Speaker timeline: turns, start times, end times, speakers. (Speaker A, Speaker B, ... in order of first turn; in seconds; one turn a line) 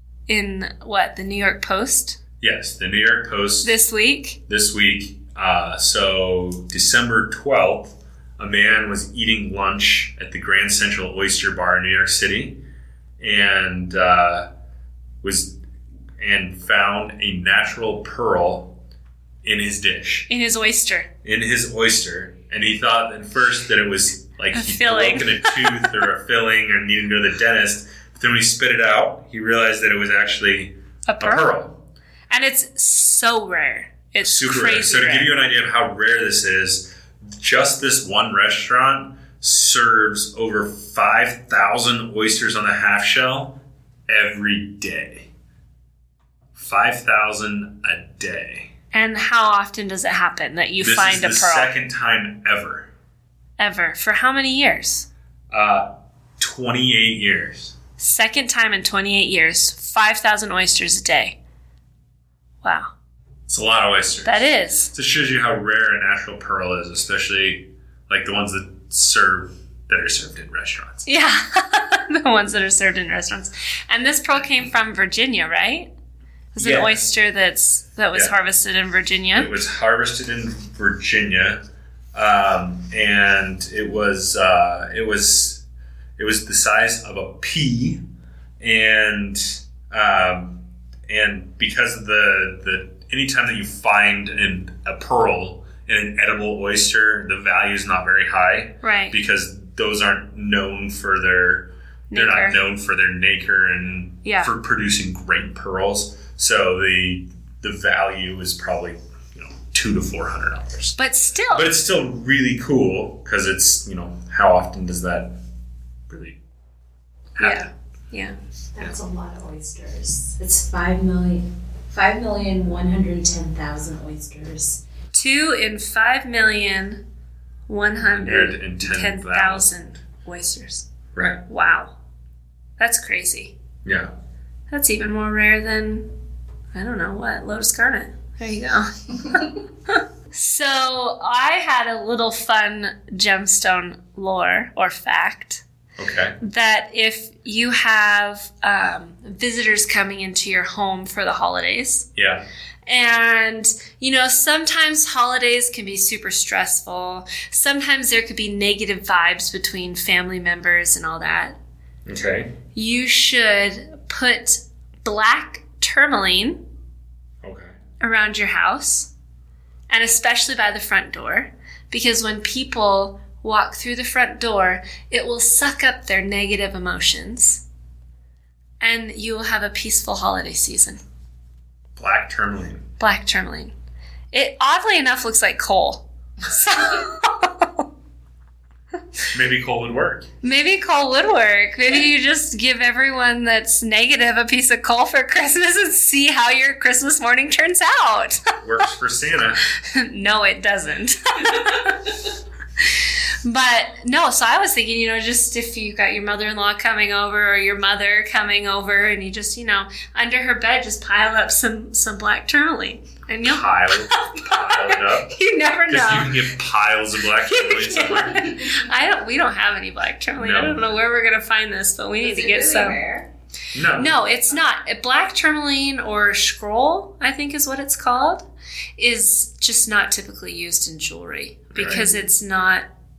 Speaker A: 0.3-2.2
Speaker B: 2.4-3.7
Speaker A: 3.6-4.4
Speaker B: 4.5-12.6
Speaker B: 13.2-14.5
Speaker B: 15.2-15.6
Speaker B: 16.2-18.7
Speaker B: 19.4-20.3
Speaker A: 20.3-21.1
Speaker B: 21.2-31.8
Speaker A: 24.5-26.0
Speaker A: 31.1-31.5
Speaker A: 32.3-35.3
Speaker B: 34.2-45.3
Speaker B: 46.5-48.7
Speaker A: 48.9-51.7
Speaker B: 50.8-52.9
Speaker A: 53.6-55.1
Speaker B: 55.5-55.9
Speaker B: 56.4-57.7
Speaker A: 58.0-61.4
Speaker A: 62.6-62.9
Speaker B: 63.5-71.1
Speaker A: 64.2-64.9
Speaker A: 71.1-75.9
Speaker A: 76.5-79.5
Speaker B: 76.6-77.0
Speaker B: 79.3-81.6
Speaker B: 82.1-85.6
Speaker B: 86.2-88.0
Speaker B: 88.6-90.6
Speaker B: 91.1-111.0
Speaker A: 98.8-99.2
Speaker A: 102.1-102.6
Speaker A: 104.2-104.5
Speaker A: 111.0-111.7
Speaker B: 111.5-115.3
Speaker B: 116.1-116.4
Speaker B: 117.4-117.7
Speaker A: 117.4-118.4
Speaker C: 118.8-124.8
Speaker A: 125.1-127.0
Speaker A: 127.7-130.9
Speaker B: 128.1-129.7
Speaker B: 131.2-131.4
Speaker A: 131.5-131.9
Speaker A: 132.8-133.5
Speaker B: 133.8-134.1
Speaker A: 134.7-136.1
Speaker A: 136.7-145.6
Speaker B: 146.0-146.4
Speaker A: 146.4-152.1
Speaker B: 152.2-152.4
Speaker A: 152.9-161.6
Speaker B: 162.1-162.5
Speaker A: 162.8-166.6
Speaker B: 167.4-167.7
Speaker A: 168.0-169.1
Speaker A: 169.9-177.6
Speaker A: 178.8-181.0
Speaker B: 182.0-182.8
Speaker A: 183.0-183.7
Speaker A: 184.3-187.8
Speaker B: 189.3-190.3
Speaker A: 190.4-198.5
Speaker B: 198.6-199.6
Speaker A: 199.7-202.2
Speaker A: 203.0-216.4
Speaker B: 213.4-215.3
Speaker B: 215.9-218.5
Speaker A: 217.4-223.0
Speaker B: 220.4-220.8
Speaker C: 222.2-223.3
Speaker B: 223.7-224.2
Speaker A: 223.9-228.5
Speaker A: 229.0-232.9
Speaker B: 231.7-232.1